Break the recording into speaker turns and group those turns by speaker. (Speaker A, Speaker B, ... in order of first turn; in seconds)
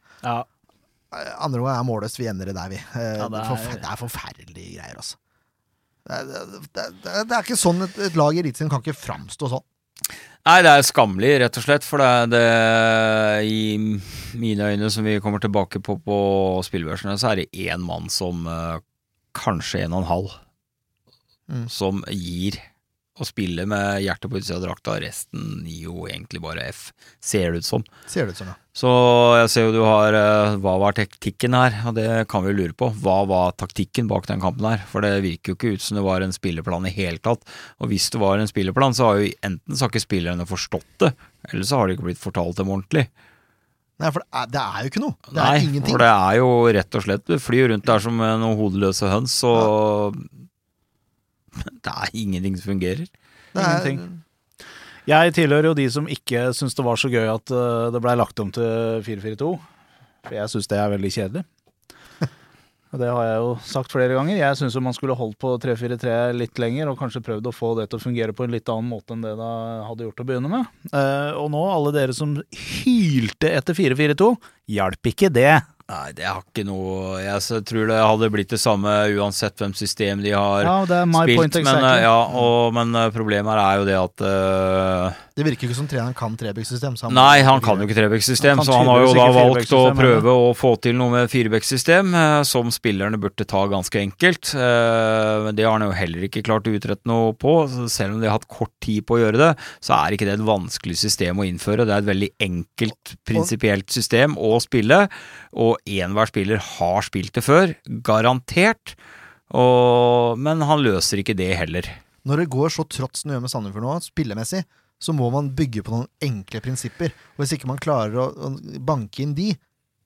Speaker A: 1.1-5.2, 6.0-9.6, 28.1-28.6, 44.0-46.0, 53.5-54.2, 85.3-87.9, 112.2-119.6
Speaker B: 3.2-3.8, 53.5-54.0, 55.0-59.6, 60.2-61.4, 62.9-75.7, 80.6-82.1, 88.4-90.2
Speaker C: 10.4-18.8, 19.3-20.4, 21.7-22.6, 23.2-27.9, 28.7-43.1, 45.3-50.3, 51.5-53.1, 75.9-85.2, 87.1-109.0, 109.5-112.0